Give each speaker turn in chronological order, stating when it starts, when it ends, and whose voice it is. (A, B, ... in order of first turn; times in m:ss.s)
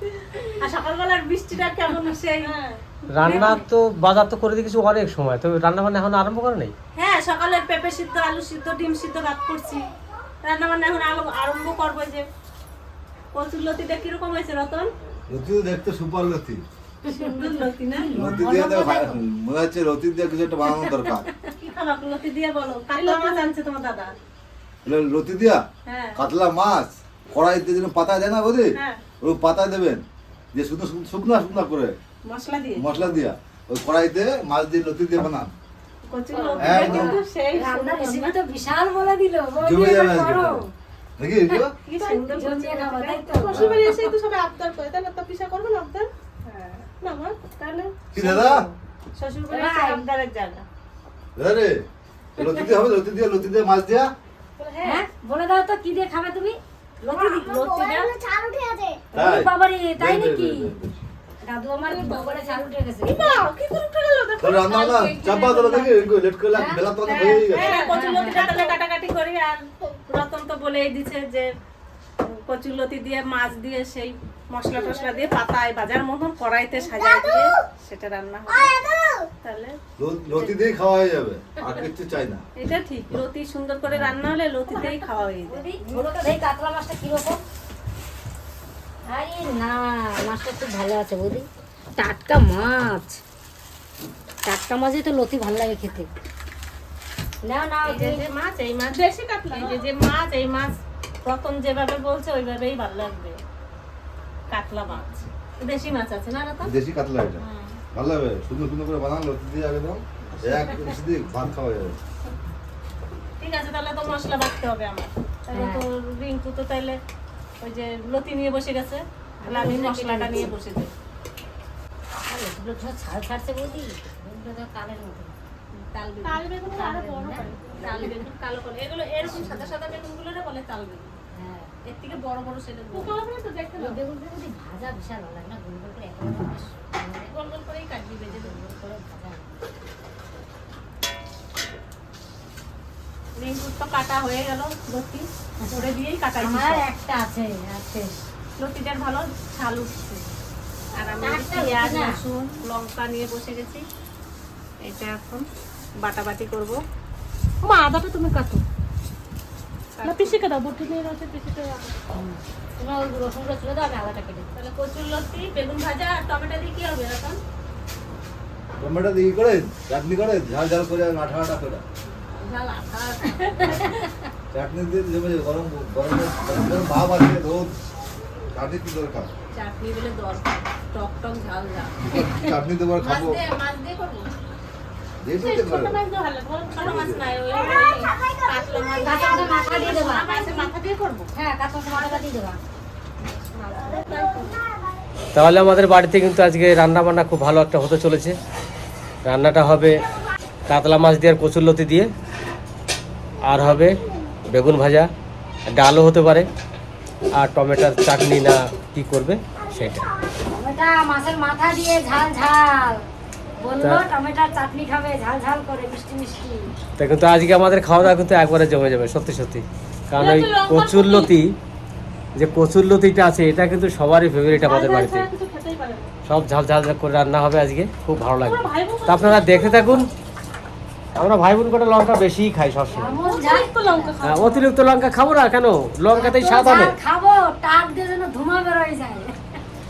0:00.6-0:02.5 A
0:02.4-0:02.8 B
0:03.1-0:06.7 C
0:03.2-0:03.6 A
0:07.0-0:09.9 A
0:10.4-0:12.2 A
0:13.3-0:14.9 A
0:15.3-0:16.6 D
0:17.1-0:19.2 E
0:17.1-0:18.1 A
0:18.2-0:21.3 D
0:20.7-0:21.2 E
0:21.6-0:24.1 A
0:23.0-0:23.5 B
0:24.8-0:25.6 D
0:25.9-0:26.2 A
0:26.2-0:32.0 D
0:32.2-0:32.9 A
0:32.8-0:35.5 D
0:36.1-0:38.4 A
0:36.3-0:40.7 E
0:36.6-0:37.2 D
0:39.6-0:40.6 D
0:41.2-0:41.7 D
0:41.9-0:44.9 A
0:41.9-0:42.8 B
0:42.0-0:44.1 E
0:43.3-0:46.1 B
0:43.5-0:43.8 D
0:46.5-0:50.6 A
0:47.1-0:47.4 B
0:48.1-0:48.7 D
0:49.5-0:50.0 E
0:51.4-0:51.8 D
0:52.4-0:54.1 D
0:54.6-0:54.9 B
0:54.8-0:57.7 E
0:57.1-0:58.2 A
0:57.6-0:58.9 B
0:59.1-1:00.7 E
0:59.2-1:01.0 D
1:01.4-1:03.5 E
1:01.8-1:06.1 B
1:04.4-1:07.8 D
1:06.5-1:08.7 E
1:07.0-1:11.5 A
1:07.4-1:08.7 B
1:12.2-1:18.8 A
1:14.8-1:15.3 B
1:19.4-1:19.8 A
1:20.0-1:22.4 D
1:20.4-1:20.7 A
1:22.6-1:26.2 A
1:25.4-1:27.4 E
1:29.1-1:33.2 E
1:34.4-1:36.1 E
1:37.4-1:38.2 E
1:37.8-1:43.4 A
1:38.9-1:39.9 B
1:44.5-1:46.7 A
1:46.6-1:52.0 D
1:47.4-1:47.8 A
1:50.3-1:50.9 A
1:53.4-1:57.0 A
1:55.5-1:55.8 E
1:57.6-2:00.9 A
1:59.4-2:00.5 E
2:02.3-2:05.4 E
2:05.7-2:06.4 A
2:06.2-2:08.2 B
2:06.7-2:07.4 E
2:07.7-2:11.2 A
2:09.2-2:09.7 E
2:11.4-2:11.7 E
2:11.8-2:13.2 A
2:12.9-2:14.0 B
2:13.8-2:17.3 E
2:17.3-2:18.6 A
2:18.3-2:19.6 E
2:23.4-2:26.8 A
2:25.6-2:25.9 E
2:26.4-2:28.2 E
2:28.6-2:30.3 A
2:31.0-2:33.8 A
2:31.2-2:32.2 E
2:34.8-2:35.4 A
2:36.0-2:36.8 A
2:37.6-2:38.6 B
2:40.0-2:40.4 A
2:40.0-2:42.0 B
2:42.2-2:44.5 E
2:44.6-2:47.4 A
2:48.8-2:51.8 D
2:52.0-2:54.1 A
2:54.5-2:57.8 D
2:58.5-2:59.3 D
2:59.5-3:02.0 A
3:02.0-3:03.4 D
3:03.0-3:04.2 A
3:05.2-3:06.0 D
3:05.4-3:06.7 B
3:06.0-3:11.3 A
3:06.8-3:07.3 D
3:07.5-3:08.1 B
3:08.9-3:10.7 E
3:11.3-3:12.6 E
3:13.3-3:14.6 A
3:15.3-3:18.4 C
3:19.2-3:20.0 C
3:20.7-3:22.1 C
3:23.4-3:25.1 C
3:25.7-3:26.5 C
3:27.4-3:30.1 C
3:30.5-3:33.0 E
3:33.6-3:36.7 E
3:33.8-3:34.1 C
3:37.0-3:41.6 C
3:40.2-3:41.3 B
3:42.4-3:45.3 C
3:44.5-3:46.1 B
3:46.3-3:50.1 C
3:48.4-3:50.0 B
3:51.2-3:53.2 C
3:52.9-3:54.2 E
3:53.2-3:54.7 B
3:54.2-3:57.0 C
3:56.1-3:59.3 E